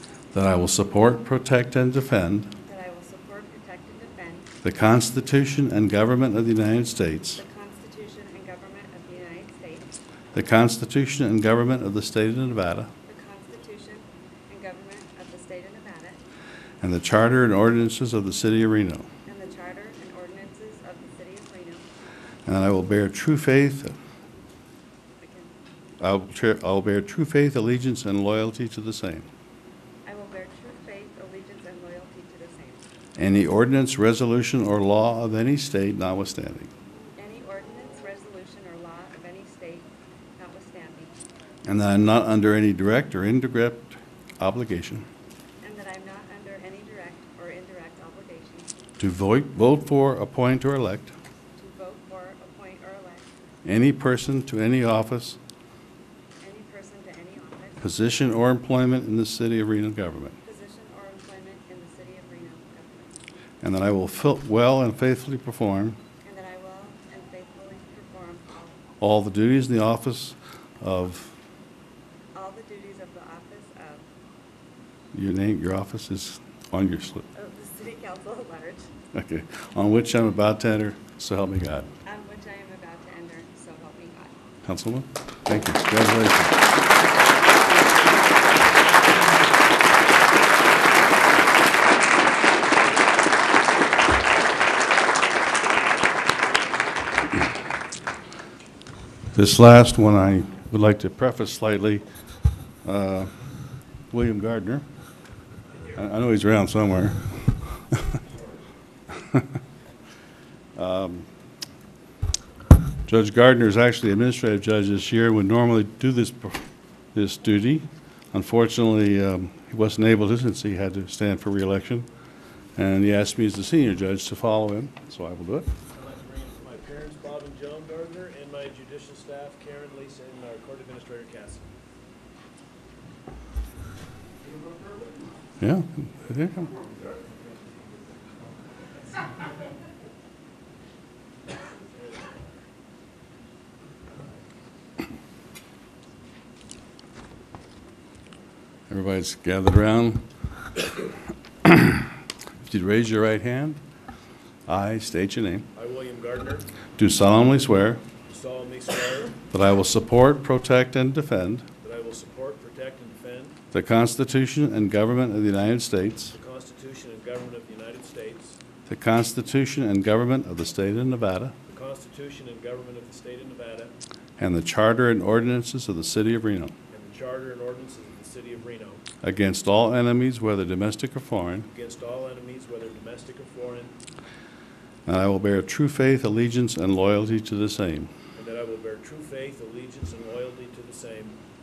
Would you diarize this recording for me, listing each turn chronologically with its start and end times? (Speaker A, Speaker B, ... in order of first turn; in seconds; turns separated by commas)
Speaker A: 0.3-2.5, Speaker B: 2.6-4.5, Speaker A: 4.6-7.4, Speaker B: 7.4-9.9, Speaker A: 10.3-12.9, Speaker B: 13.1-16.2, Speaker A: 16.8-19.1, Speaker B: 19.3-21.9, Speaker A: 22.5-23.9, Speaker B: 25.2-25.6, Speaker A: 26.0-29.3, Speaker B: 30.1-32.8, Speaker A: 33.2-36.7, Speaker B: 37.2-41.1, Speaker A: 41.6-45.1, Speaker B: 45.6-48.8, Speaker A: 49.0-51.1, Speaker B: 51.6-53.3, Speaker A: 53.6-55.4, Speaker B: 56.4-58.0, Speaker A: 57.8-60.4, Speaker B: 60.4-63.1, Speaker A: 63.6-66.0, Speaker B: 66.2-68.8, Speaker A: 69.0-71.3, Speaker B: 72.3-74.1, Speaker A: 75.1-77.3, Speaker B: 77.3-78.9, Speaker A: 79.1-81.9, Speaker B: 82.0-84.3, Speaker A: 84.7-86.6, Speaker A: 99.3-102.0, Speaker A: 102.8-103.3, Speaker A: 104.1-104.8, Speaker A: 105.9-108.2, Speaker A: 110.8-111.3, Speaker A: 113.1-116.6, Speaker A: 117.1-122.1, Speaker A: 122.8-125.7, Speaker C: 126.0-131.7, Speaker A: 135.6-136.7, Speaker A: 148.9-150.3, Speaker A: 151.7-152.1, Speaker A: 152.6-153.8, Speaker A: 154.7-155.7, Speaker C: 155.8-156.7, Speaker A: 157.0-158.0, Speaker C: 158.3-159.4, Speaker A: 159.5-161.7, Speaker C: 161.8-163.6, Speaker A: 163.7-166.3, Speaker C: 166.3-168.6, Speaker A: 168.9-171.6, Speaker C: 171.7-173.9, Speaker A: 174.4-176.7, Speaker C: 176.9-179.0, Speaker A: 179.2-181.7, Speaker C: 181.7-184.0, Speaker A: 185.1-188.1, Speaker C: 188.3-191.4